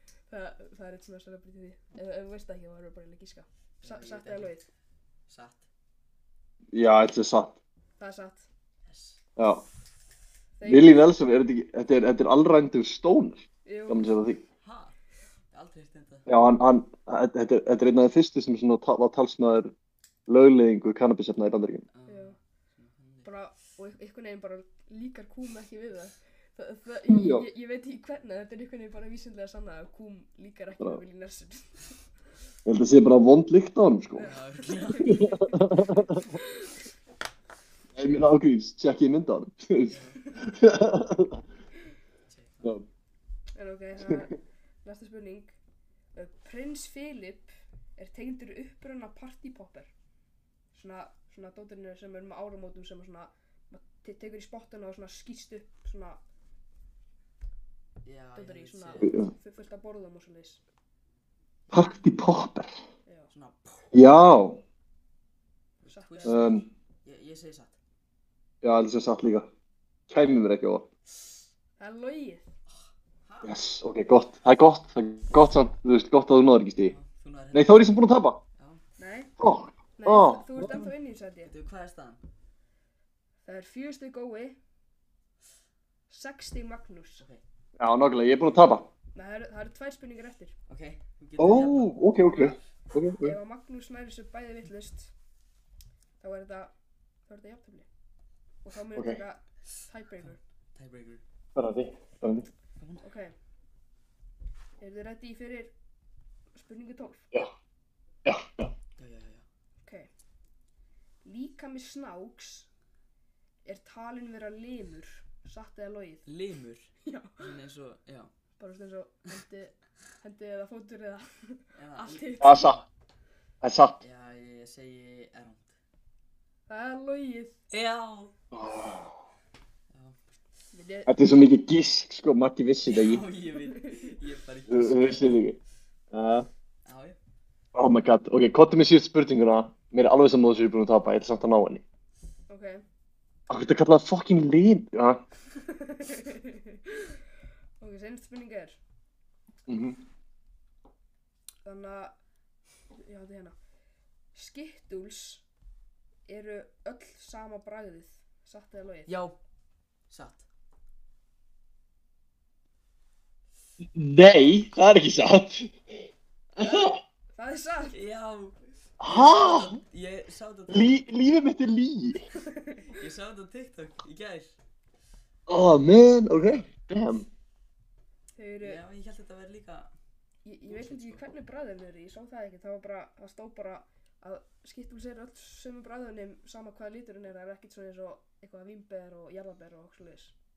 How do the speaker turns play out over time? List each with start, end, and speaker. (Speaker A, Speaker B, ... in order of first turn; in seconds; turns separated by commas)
Speaker A: 0.3-4.6, Speaker B: 3.8-4.6, Speaker B: 5.3-5.7, Speaker C: 6.7-7.6, Speaker A: 8.0-8.5, Speaker B: 8.8-9.2, Speaker C: 9.4-9.6, Speaker A: 10.6-11.0, Speaker C: 10.6-14.4, Speaker A: 13.7-14.0, Speaker B: 14.6-14.9, Speaker B: 15.5-16.3, Speaker C: 16.3-19.7, Speaker C: 20.3-21.9, Speaker B: 21.9-23.3, Speaker A: 22.1-22.4, Speaker A: 23.2-31.8, Speaker C: 27.1-27.5, Speaker C: 32.6-34.3, Speaker A: 34.1-36.8, Speaker B: 34.2-35.4, Speaker C: 35.0-36.2, Speaker C: 38.0-41.4, Speaker B: 39.9-40.2, Speaker B: 42.3-42.8, Speaker A: 43.5-45.5, Speaker A: 46.1-49.9, Speaker A: 50.7-56.2, Speaker B: 58.0-59.2, Speaker A: 58.4-60.6, Speaker C: 59.0-59.3, Speaker C: 61.7-62.7, Speaker B: 63.3-63.9, Speaker C: 63.9-64.6, Speaker B: 65.8-67.8, Speaker A: 65.9-66.5, Speaker C: 66.2-66.6, Speaker C: 68.6-69.5, Speaker C: 70.1-70.9, Speaker A: 71.8-72.5, Speaker B: 72.7-73.6, Speaker C: 73.4-77.0, Speaker B: 76.9-78.0, Speaker C: 77.5-78.4, Speaker B: 78.5-78.8, Speaker A: 79.0-79.3, Speaker C: 79.4-80.8, Speaker A: 80.0-81.5, Speaker B: 81.4-82.2, Speaker A: 83.4-84.6, Speaker A: 86.1-87.2, Speaker C: 87.8-88.9, Speaker A: 89.1-90.5, Speaker B: 90.7-92.6, Speaker C: 91.4-93.3, Speaker A: 93.2-95.1, Speaker A: 96.2-96.7, Speaker A: 97.3-97.9, Speaker A: 98.6-100.4, Speaker B: 100.2-101.2, Speaker C: 101.5-102.5, Speaker B: 102.8-103.0, Speaker A: 103.0-103.3, Speaker A: 104.8-105.7, Speaker A: 106.5-107.2, Speaker C: 108.2-108.7, Speaker B: 109.0-109.5, Speaker A: 109.8-110.1, Speaker A: 111.2-112.7, Speaker A: 113.7-116.2, Speaker B: 116.2-118.3, Speaker A: 117.0-117.4, Speaker A: 118.6-122.7, Speaker B: 121.8-122.8, Speaker C: 122.4-122.8, Speaker C: 123.6-124.0, Speaker B: 124.0-125.7, Speaker A: 126.7-127.5, Speaker B: 127.7-128.3, Speaker C: 128.5-129.1, Speaker B: 129.9-130.2, Speaker A: 130.7-131.1, Speaker C: 131.1-133.2, Speaker B: 132.8-135.3, Speaker A: 133.5-134.1, Speaker C: 134.7-135.6, Speaker C: 136.1-136.5, Speaker B: 136.8-137.2, Speaker C: 137.7-141.8, Speaker A: 142.5-142.8, Speaker C: 143.5-145.2, Speaker A: 145.6-147.2, Speaker A: 147.8-148.8, Speaker C: 149.7-150.0, Speaker A: 151.6-152.2, Speaker A: 153.0-153.6, Speaker A: 154.3-155.4, Speaker A: 156.3-159.2, Speaker B: 159.1-159.3, Speaker B: 160.1-160.4, Speaker C: 163.9-165.8, Speaker C: 166.6-167.0, Speaker B: 166.6-166.9, Speaker A: 167.3-167.9, Speaker B: 167.9-171.1, Speaker C: 169.0-169.8, Speaker C: 170.7-172.2, Speaker A: 172.4-172.9, Speaker B: 172.9-174.6, Speaker C: 175.5-177.3, Speaker A: 178.3-178.8, Speaker B: 178.6-179.9, Speaker A: 180.4-190.3, Speaker B: 180.7-181.3